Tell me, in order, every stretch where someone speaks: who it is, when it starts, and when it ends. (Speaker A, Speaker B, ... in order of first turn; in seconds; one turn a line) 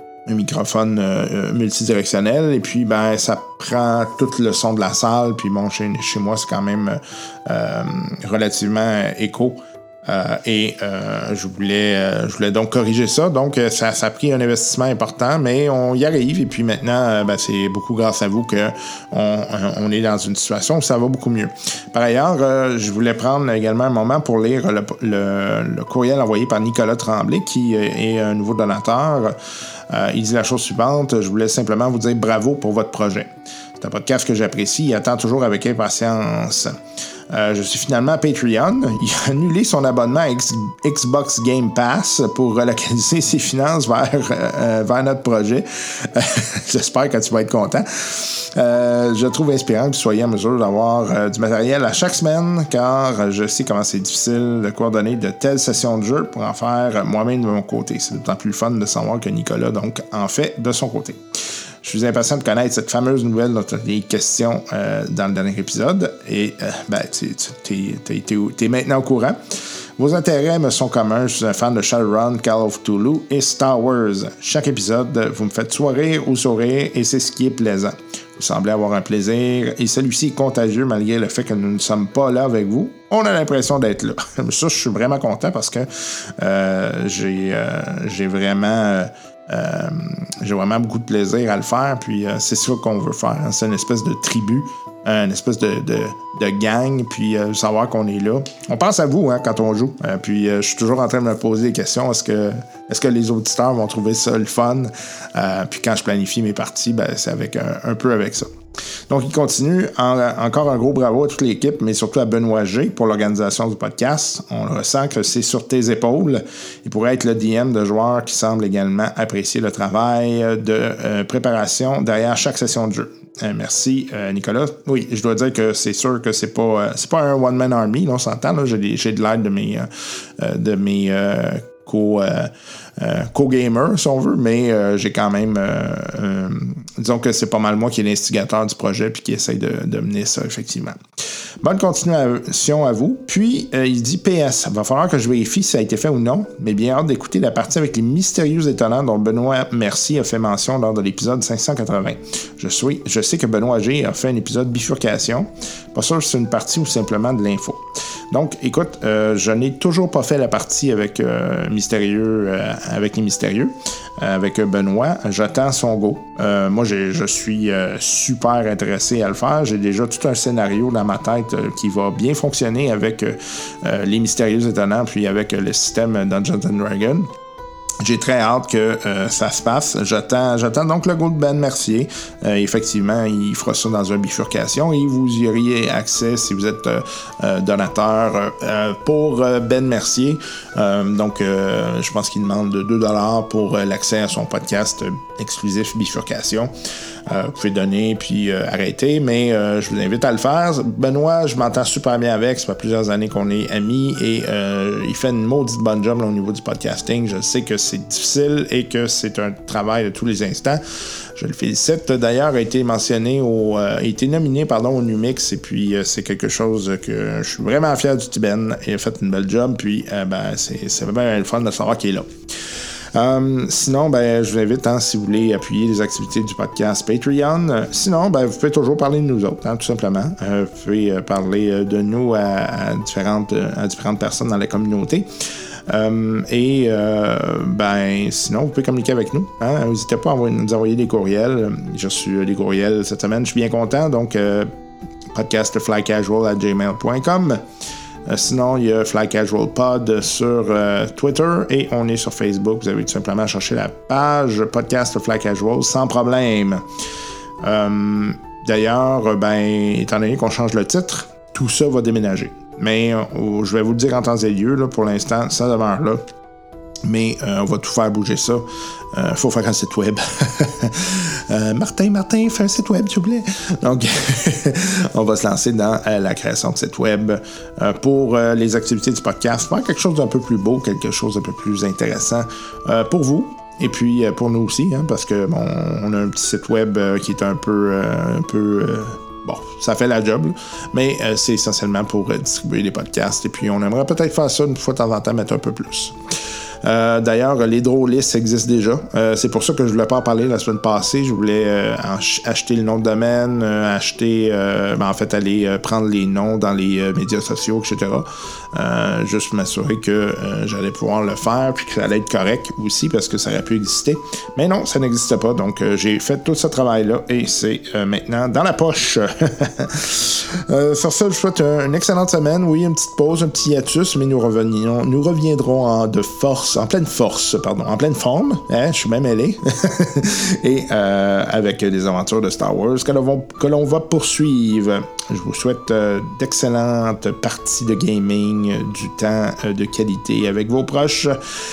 Speaker A: 0.3-29.4
Speaker A: 29.9-36.8
Speaker A: 37.3-61.2
Speaker A: 61.8-108.5
Speaker A: 109.1-141.0
Speaker A: 141.6-177.3
Speaker A: 178.0-196.7
Speaker A: 197.3-235.3
Speaker A: 235.9-244.7
Speaker A: 245.3-247.6
Speaker A: 248.3-256.9
Speaker A: 257.6-266.2
Speaker A: 267.0-296.2
Speaker A: 296.8-341.4